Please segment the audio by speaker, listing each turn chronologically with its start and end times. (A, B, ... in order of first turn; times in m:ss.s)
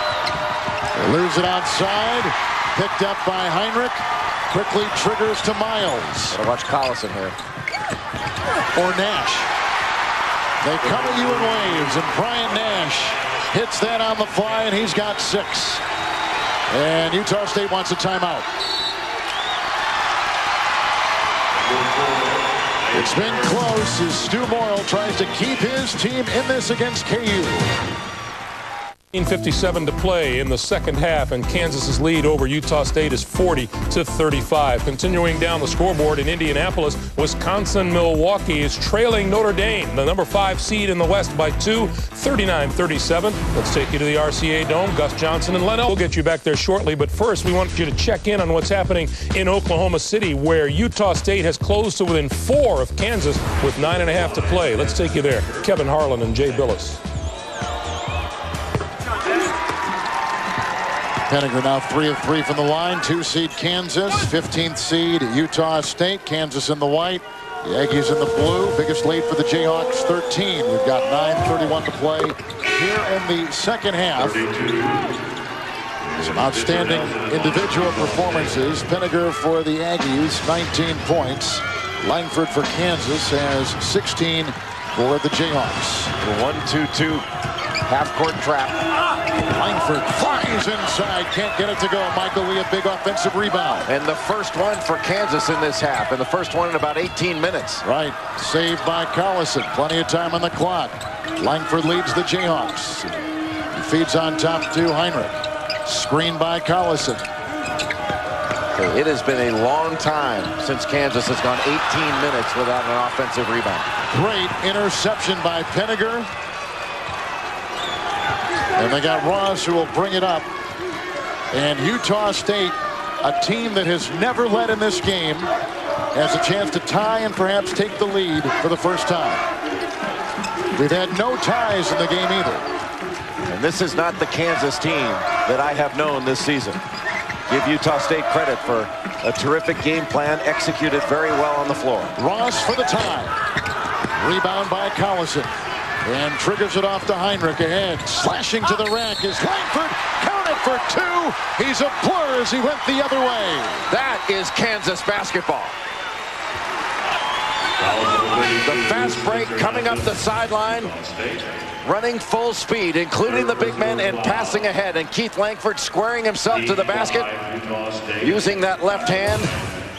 0:01.0-0:06.4 A
0:06.3-0:07.4 B
0:08.7-0:09.5 A
0:10.6-0:15.8 A
0:16.7-0:18.5 A
0:22.9-0:27.8 A
0:29.1-0:57.0 C
1:01.3-1:14.5 A
1:16.2-1:26.1 A
1:26.2-1:27.2 B
1:27.9-1:28.8 B
1:29.5-1:33.9 A
1:33.9-1:37.8 B
1:37.8-1:47.2 A
1:48.7-1:53.9 B
1:54.1-1:56.3 A
1:58.8-2:00.5 A
2:01.5-2:05.5 A
2:06.1-2:09.4 A
2:10.7-2:12.7 A
2:13.5-2:16.8 B
2:17.5-2:22.1 B
2:22.2-2:23.4 A
2:24.2-2:25.5 A
2:26.0-2:33.9 A
2:33.9-2:35.8 B
2:38.3-2:41.1 B
2:41.8-2:47.4 B
2:48.2-2:49.6 B